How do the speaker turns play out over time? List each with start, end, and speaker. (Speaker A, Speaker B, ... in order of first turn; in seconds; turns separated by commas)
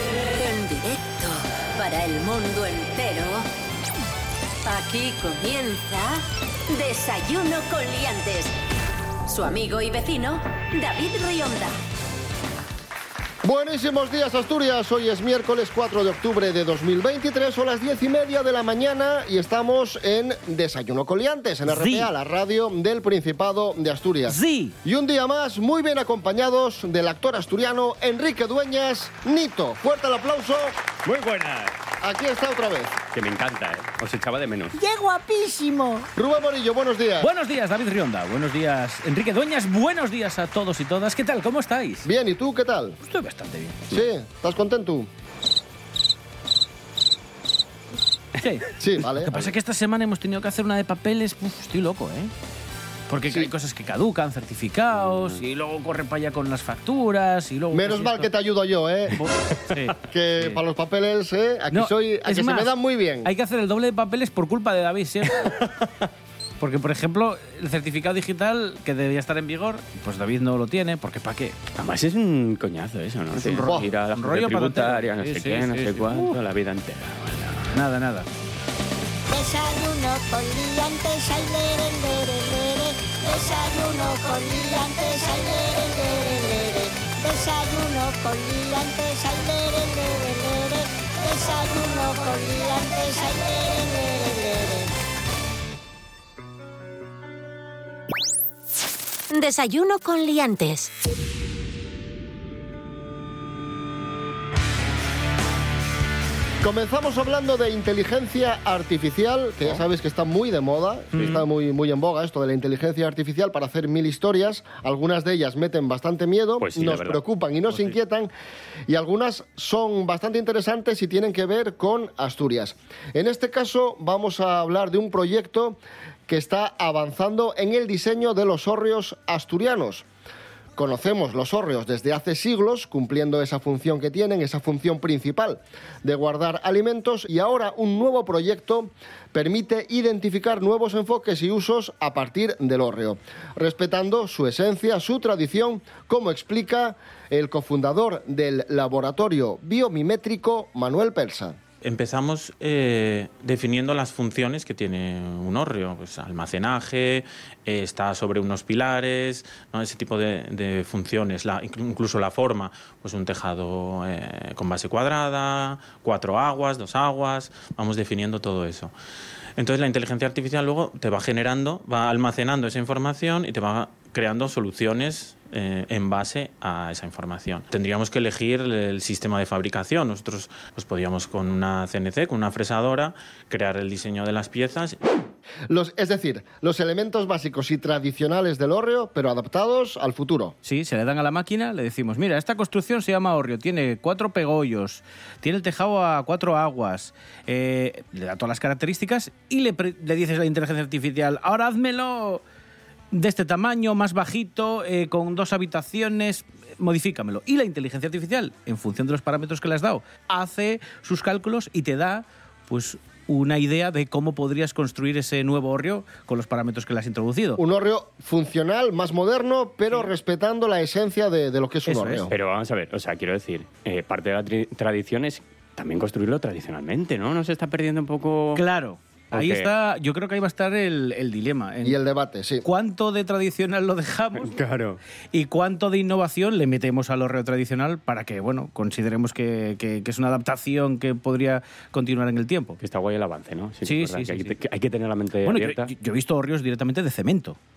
Speaker A: 0.3-3.5, Speaker A: 4.6-8.5, Speaker A: 9.3-11.7, Speaker B: 13.4-30.7, Speaker C: 21.7-22.1, Speaker C: 24.3-24.7, Speaker D: 31.0-31.7, Speaker B: 32.0-32.9, Speaker D: 33.1-34.8, Speaker E: 34.7-36.1, Speaker B: 36.1-37.3, Speaker C: 37.2-42.1, Speaker B: 42.0-43.0, Speaker C: 43.0-43.8, Speaker B: 43.9-45.1, Speaker C: 48.4-52.3, Speaker B: 48.8-49.3, Speaker C: 53.1-58.3, Speaker D: 55.1-55.4, Speaker B: 57.7-59.2, Speaker C: 59.2-60.6, Speaker B: 60.1-63.3, Speaker C: 61.7-62.7, Speaker C: 63.2-65.5, Speaker C: 66.6-71.6, Speaker D: 71.8-77.8, Speaker C: 73.3-76.3, Speaker C: 77.7-78.3, Speaker E: 79.3-94.9, Speaker A: 99.3-100.9, Speaker B: 106.6-118.3, Speaker C: 111.1-111.4, Speaker D: 116.6-117.9, Speaker B: 118.9-130.1, Speaker B: 130.8-151.6, Speaker F: 151.8-168.9, Speaker F: 169.6-185.0, Speaker B: 185.7-190.5, Speaker C: 190.6-202.4, Speaker C: 203.1-217.6, Speaker B: 217.6-222.3, Speaker C: 221.8-222.3, Speaker D: 222.3-228.6, Speaker C: 228.5-232.0, Speaker D: 229.3-229.7, Speaker B: 231.8-232.7, Speaker C: 232.6-234.6, Speaker D: 234.4-235.0, Speaker C: 235.3-242.8, Speaker D: 242.8-245.9, Speaker C: 243.8-244.6, Speaker C: 245.4-247.6